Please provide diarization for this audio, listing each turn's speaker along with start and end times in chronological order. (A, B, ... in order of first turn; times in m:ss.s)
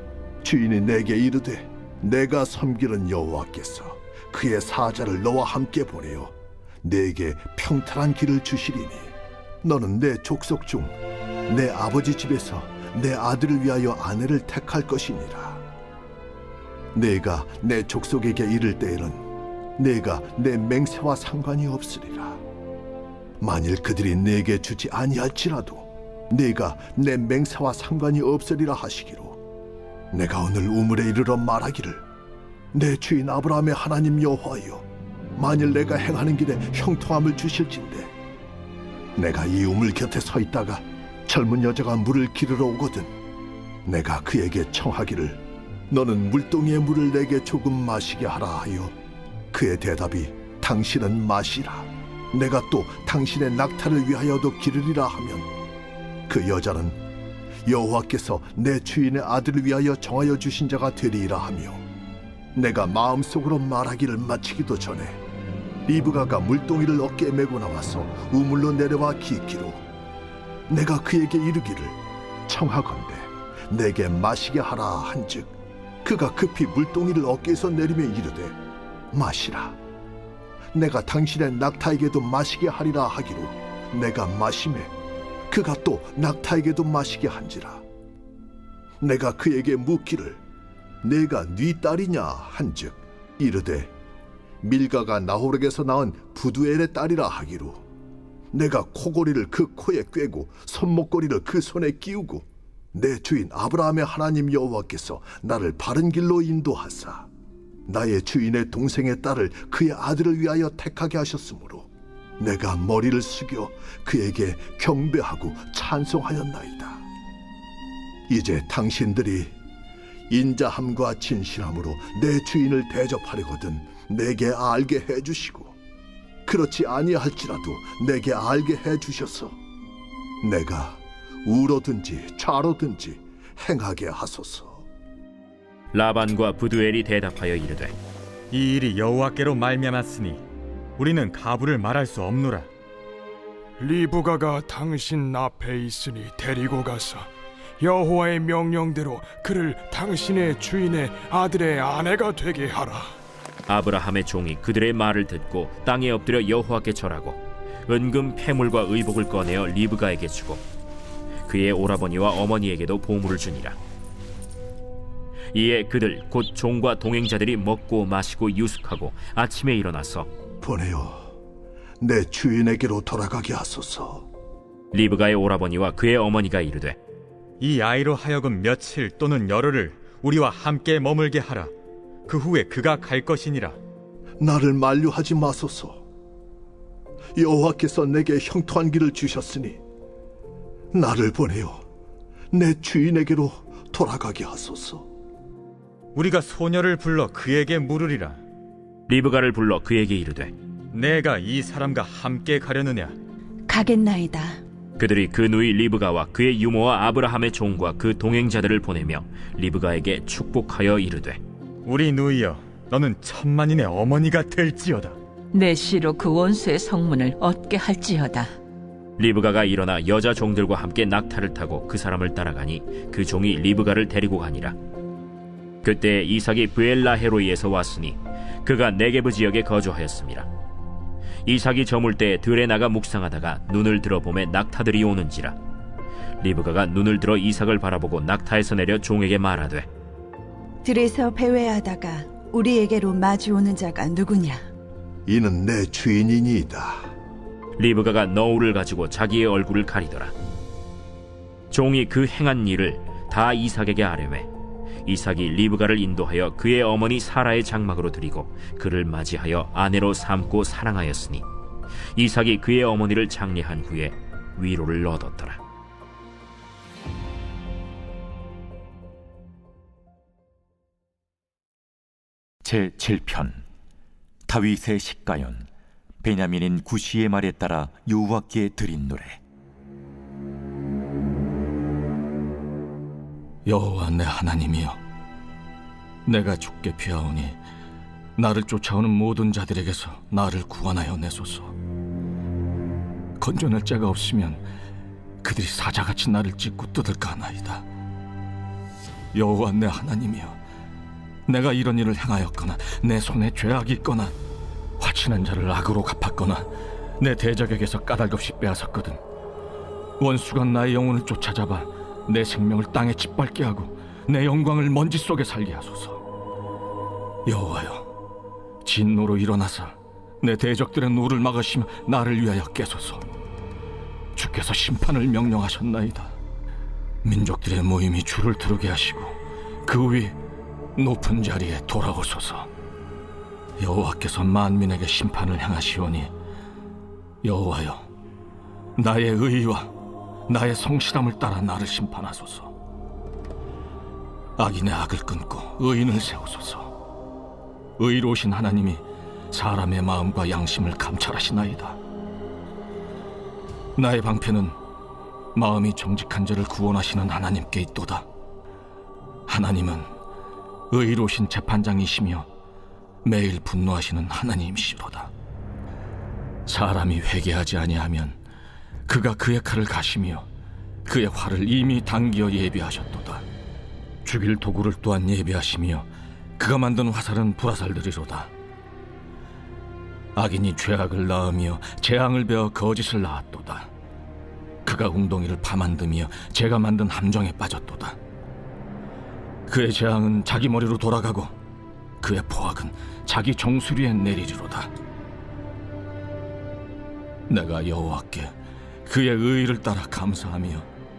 0:00.4-0:11.0 A
0:11.5-0:15.6 A
0:16.9-0:22.4 A
0:23.4-0:29.4 A
0:30.1-0:32.0 A
0:32.7-0:38.1 A
0:39.2-0:43.1 A
0:43.8-0:49.0 A
0:49.5-0:55.5 A
0:56.3-0:57.0 A
0:57.6-1:01.8 A
1:02.6-1:05.2 A
1:05.9-1:09.8 A
1:10.7-1:18.6 A
1:19.1-1:19.8 A
1:20.7-1:24.9 A
1:25.5-1:27.8 A
1:29.0-1:30.4 A
1:31.0-1:33.9 A
1:34.6-1:37.8 A
1:38.5-1:47.3 A
1:47.9-1:51.9 A
1:52.4-1:57.0 A
1:58.3-1:59.5 A
2:00.3-2:05.8 A
2:06.4-2:09.6 A
2:10.4-2:14.9 A
2:15.9-2:18.0 B
2:18.5-2:20.4 C
2:21.0-2:22.7 C
2:23.8-2:33.2 D
2:33.7-2:40.6 B
2:41.5-2:43.8 B
2:45.5-2:50.3 B
2:50.6-2:51.4 A
2:52.0-2:54.3 A
2:54.9-2:57.0 B
2:57.6-3:01.7 C
3:02.3-3:03.8 C
3:04.4-3:06.0 A
3:07.4-3:09.8 A
3:10.9-3:11.8 A
3:12.5-3:15.1 A
3:16.2-3:18.4 C
3:19.1-3:20.5 B
3:20.9-3:23.2 C
3:23.7-3:24.6 E
3:25.0-3:31.4 B
3:31.8-3:35.2 C
3:35.5-3:38.5 F
3:39.2-3:44.8 B
3:45.8-3:50.5 B
3:51.4-3:55.6 B
3:56.4-3:59.9 B
4:00.8-4:04.7 E
4:05.3-4:07.1 A
4:07.8-4:10.3 B
4:11.7-4:14.5 B
4:15.1-4:21.4 B
4:22.2-4:25.6 B
4:32.6-4:33.6 G
4:34.5-4:35.7 G
4:36.2-4:39.4 G
4:43.6-4:45.0 H
4:46.2-4:47.6 H
4:48.4-4:51.8 H
4:53.4-4:54.6 H
4:55.4-4:57.8 H
4:59.3-5:00.6 H
5:01.5-5:04.4 H
5:05.0-5:09.2 H
5:10.2-5:16.2 H
5:17.5-5:18.1 H
5:18.8-5:23.2 H
5:24.4-5:26.4 H
5:27.2-5:30.4 H
5:31.0-5:32.7 H
5:33.8-5:36.3 H
5:37.4-5:38.1 H
5:39.0-5:40.0 H
5:40.5-5:42.7 H
5:44.6-5:47.0 H
5:48.0-5:52.0 H
5:54.0-5:54.8 H
5:55.5-5:58.3 H
5:59.5-6:00.1 H
6:00.9-6:02.5 H
6:03.2-6:05.3 H
6:06.7-6:08.4 H
6:09.1-6:10.5 H
6:11.0-6:13.5 H
6:14.2-6:18.5 H
6:20.4-6:23.9 H
6:24.8-6:28.2 H
6:29.7-6:31.5 H
6:32.2-6:34.9 H
6:37.5-6:40.9 H